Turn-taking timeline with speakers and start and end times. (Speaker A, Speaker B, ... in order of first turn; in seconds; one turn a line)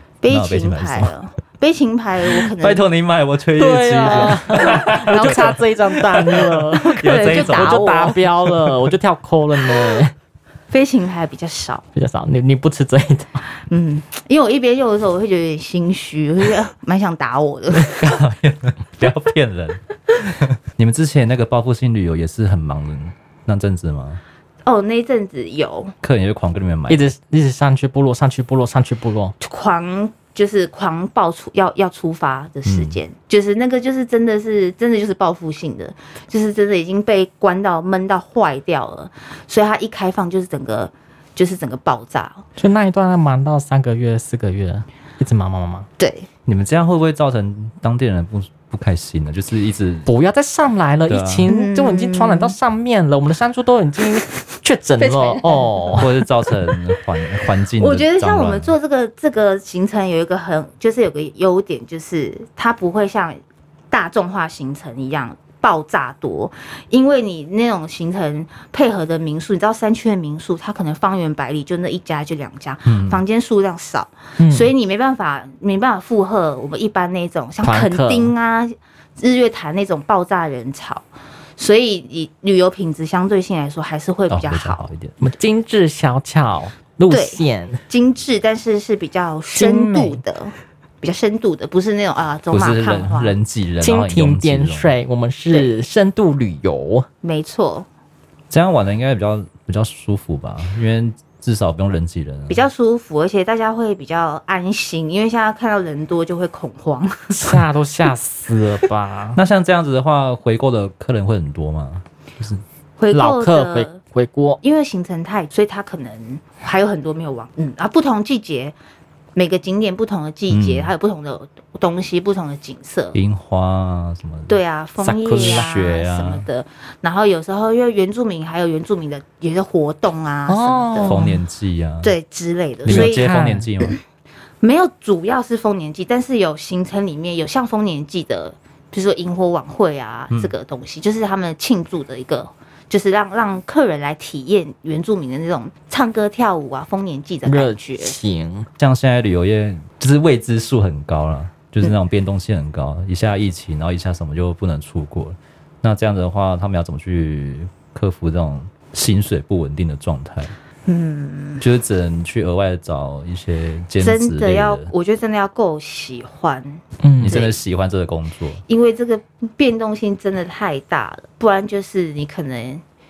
Speaker A: 0.2-2.8
Speaker B: 0.3-1.1
Speaker B: 2.6-8.8
Speaker C: 3.6-10.1
Speaker A: 4.0-5.6
Speaker A: 6.7-8.2
Speaker A: 10.7-11.8
Speaker C: 11.9-13.4
Speaker A: 13.7-18.0
Speaker B: 17.9-24.2
Speaker A: 24.6-25.9
Speaker B: 26.0-27.1
Speaker C: 26.9-29.3
Speaker A: 29.4-42.4
Speaker B: 32.7-33.0
Speaker C: 42.6-45.9
Speaker A: 46.0-46.3
Speaker B: 46.5-50.1
Speaker C: 50.1-56.1
Speaker B: 51.1-51.5
Speaker A: 51.5-52.5
Speaker A: 55.0-56.1
Speaker B: 56.0-58.7
Speaker A: 57.8-81.0
Speaker B: 72.8-73.2
Speaker C: 74.4-74.7
Speaker C: 77.6-78.3
Speaker A: 81.6-84.9
Speaker B: 84.3-85.1
Speaker C: 85.2-87.8
Speaker A: 87.1-93.3
Speaker C: 89.5-90.2
Speaker B: 92.5-94.9
Speaker C: 93.8-97.1
Speaker A: 97.2-97.9
Speaker B: 98.5-102.7
Speaker A: 102.5-107.6
Speaker C: 107.3-109.4
Speaker B: 109.3-112.6
Speaker A: 113.0-114.0
Speaker C: 113.1-114.6
Speaker A: 114.6-118.7
Speaker A: 119.3-123.2
Speaker B: 120.5-120.9
Speaker B: 123.1-124.6
Speaker A: 124.5-131.2
Speaker C: 125.0-125.7
Speaker B: 125.3-126.5
Speaker C: 130.5-131.4
Speaker B: 131.1-132.1
Speaker A: 132.0-134.0
Speaker C: 132.8-133.7
Speaker B: 132.8-134.0
Speaker A: 134.6-148.1
Speaker C: 147.4-148.7
Speaker B: 148.8-160.5
Speaker A: 160.9-161.6
Speaker B: 161.6-164.9
Speaker A: 164.0-167.5
Speaker C: 167.0-167.4
Speaker B: 167.2-168.6
Speaker A: 168.7-172.8